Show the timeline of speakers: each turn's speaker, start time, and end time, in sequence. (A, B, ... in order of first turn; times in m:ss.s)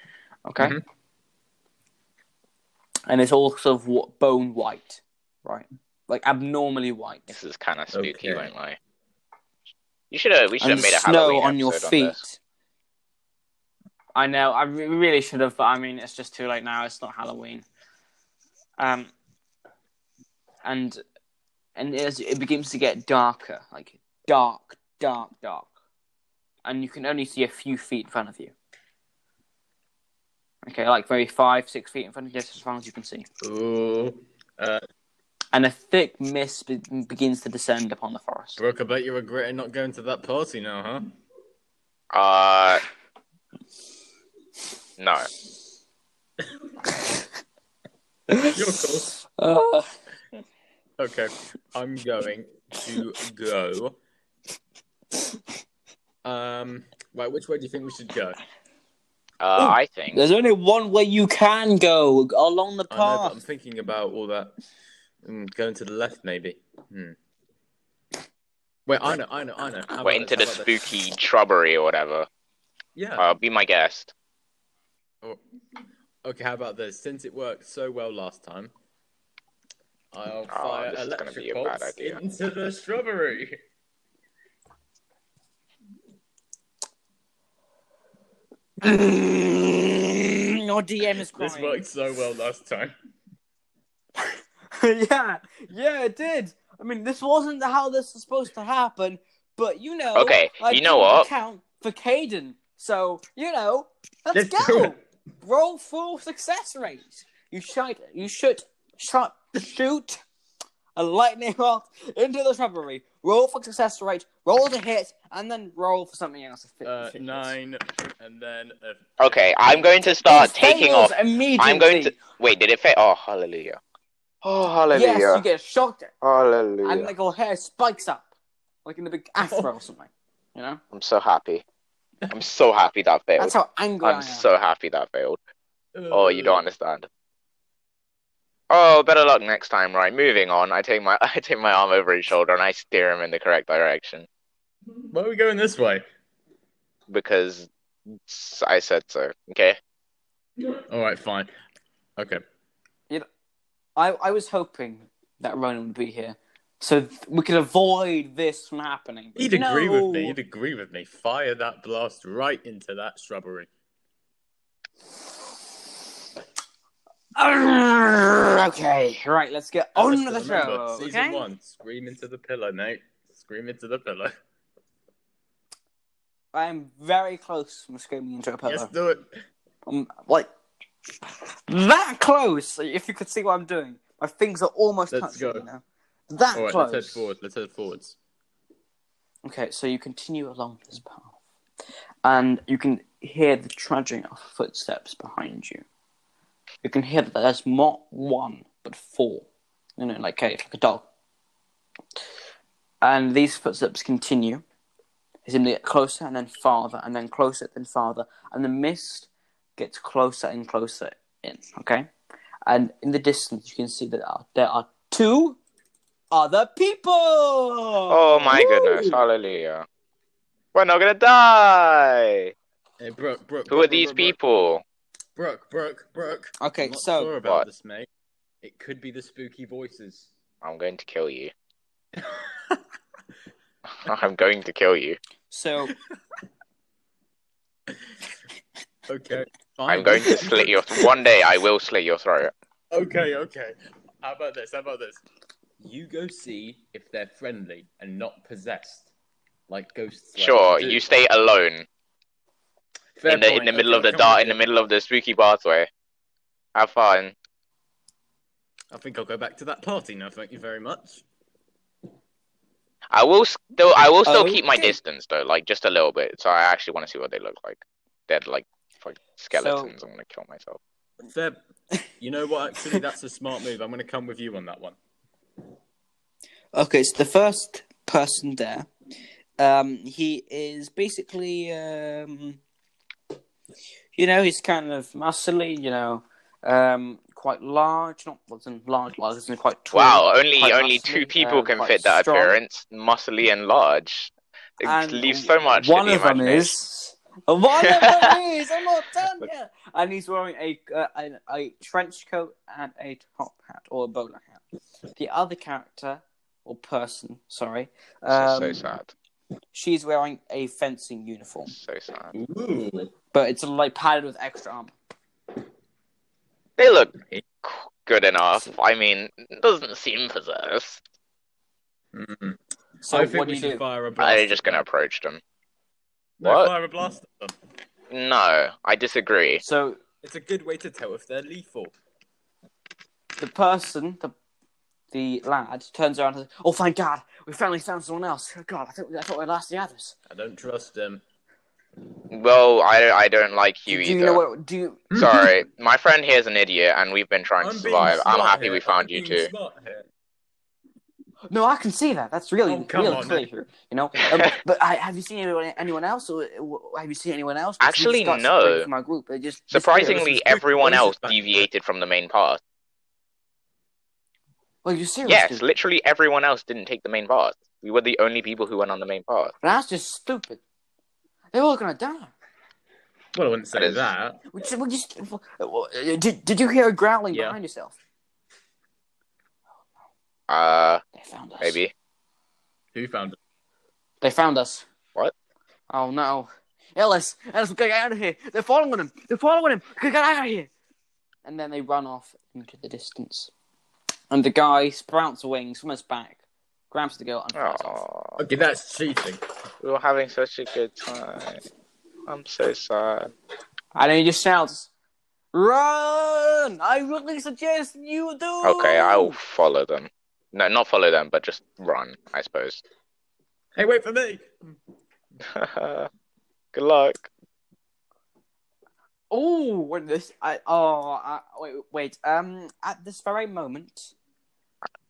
0:00.5-0:00.8 A
0:03.1-0:07.3 A
0:07.3-0:08.8 B
0:07.9-0:08.5 C
0:10.1-0:12.2 B
0:10.6-0:12.4 A
0:14.2-0:17.6 A
0:18.8-0:19.1 A
0:20.6-0:21.0 A
0:21.8-0:25.7 A
0:26.6-0:28.5 A
0:30.6-0:33.3 A
0:33.4-0:34.8 C
0:35.5-0:38.6 A
0:38.6-0:41.1 C
0:42.1-0:42.8 B
0:45.0-0:45.3 B
0:48.3-0:48.6 A
0:48.5-0:49.1 C
0:49.2-0:49.9 A
0:51.0-0:54.0 C
0:56.2-0:58.4 C
0:59.4-1:00.2 B
0:59.6-1:03.4 A
1:02.9-1:04.6 C
1:05.2-1:07.2 C
1:08.9-1:10.8 C
1:09.9-1:12.3 B
1:13.0-1:13.3 C
1:13.2-1:14.1 B
1:16.2-1:18.7 C
1:20.1-1:23.6 C
1:20.5-1:22.2 B
1:28.8-1:31.8 A
1:31.3-1:33.0 C
1:34.2-1:50.2 A
1:40.2-1:41.3 B
1:44.3-1:45.0 C
1:51.0-1:57.5 A
1:56.8-1:59.6 C
1:59.2-2:03.8 B
2:00.2-2:02.2 A
2:04.4-2:05.4 B
2:04.9-2:06.1 A
2:06.2-2:07.1 B
2:06.8-2:08.3 A
2:08.8-2:10.8 A
2:09.4-2:09.7 C
2:10.9-2:11.6 B
2:12.3-2:15.4 B
2:13.4-2:14.5 A
2:16.0-2:16.6 C
2:16.1-2:17.1 B
2:18.7-2:24.3 B
2:25.1-2:26.0 C
2:27.1-2:27.7 B
2:28.2-2:29.8 B
2:30.9-2:31.5 C
2:34.0-2:40.4 A
2:39.4-2:43.7 C
2:47.4-2:51.5 A
2:50.0-2:54.3 C
2:56.5-2:58.9 A
2:58.6-2:59.3 C
2:59.9-3:00.5 A
3:01.7-3:07.3 A
3:05.1-3:05.7 C
3:06.5-3:08.2 C
3:09.4-3:11.3 A
3:12.2-3:15.8 A
3:16.8-3:21.1 A
3:23.0-3:24.6 A
3:25.4-3:32.1 A
3:32.7-3:35.6 A
3:36.3-3:39.1 A
3:38.1-3:39.9 B
3:38.5-3:39.0 C
3:40.7-3:42.5 B
3:43.0-3:44.4 C
3:43.7-3:44.8 B
3:45.4-3:48.1 C
3:46.6-3:47.3 A
3:48.6-3:50.3 C
3:50.6-3:51.5 B
3:52.2-3:52.7 C
3:54.0-3:55.2 B
3:55.5-3:55.9 A
3:59.1-4:01.1 C
3:59.9-4:02.5 B
4:02.9-4:05.2 C
4:05.8-4:09.1 C
4:09.7-4:11.0 C
4:10.4-4:11.9 B
4:13.2-4:14.6 C
4:13.3-4:15.9 B
4:16.8-4:17.4 B
4:18.9-4:21.2 C
4:23.1-4:30.8 B
4:24.2-4:25.0 A
4:29.5-4:29.9 A
4:31.3-4:31.6 C
4:32.2-4:35.0 C
4:36.8-4:38.9 A
4:39.6-4:42.6 A
4:44.2-4:52.6 A
4:49.9-4:54.3 B
4:54.8-5:04.6 A
4:54.8-4:56.7 B
4:57.8-4:58.4 B
5:05.2-5:08.8 A
5:08.3-5:09.1 B
5:09.7-5:11.7 A
5:11.7-5:12.4 B
5:12.3-5:13.1 C
5:13.3-5:14.9 A
5:16.8-5:21.0 B
5:22.1-5:22.6 C
5:23.0-5:23.8 A
5:23.1-5:24.8 C
5:24.2-5:25.4 B
5:26.4-5:27.5 C
5:26.4-5:26.7 B
5:28.1-5:29.6 B
5:29.6-5:30.0 A
5:30.2-5:31.9 C
5:33.4-5:34.3 A
5:35.1-5:40.2 A
5:40.3-5:41.2 C
5:42.3-5:44.4 B
5:43.9-5:45.0 A
5:45.1-5:45.5 C
5:45.1-5:49.5 B
5:47.6-5:50.1 C
5:51.5-6:00.2 A
5:52.7-5:53.5 C
5:57.8-5:58.9 B
5:59.7-6:02.6 B
5:59.9-6:01.7 C
6:04.8-6:05.6 A
6:05.3-6:09.6 B
6:09.6-6:10.6 A
6:11.5-6:12.3 A
6:13.4-6:14.4 C
6:13.7-6:14.1 B
6:14.5-6:18.0 A
6:17.3-6:17.6 C
6:20.5-6:21.0 B
6:21.2-6:21.8 A
6:21.6-6:21.9 B
6:23.0-6:23.4 C
6:24.2-6:24.9 A
6:25.9-6:30.7 A
6:31.4-6:33.5 A
6:34.3-6:36.4 A
6:36.9-6:38.0 A
6:37.5-6:38.4 B
6:38.4-6:39.4 C
6:39.8-6:41.6 B
6:42.3-6:43.3 B
6:44.0-6:44.9 A
6:45.5-6:49.4 A
6:48.6-6:52.8 B
6:53.8-6:54.5 C
6:55.4-6:56.1 B
6:56.7-6:57.3 B
6:59.3-7:04.1 A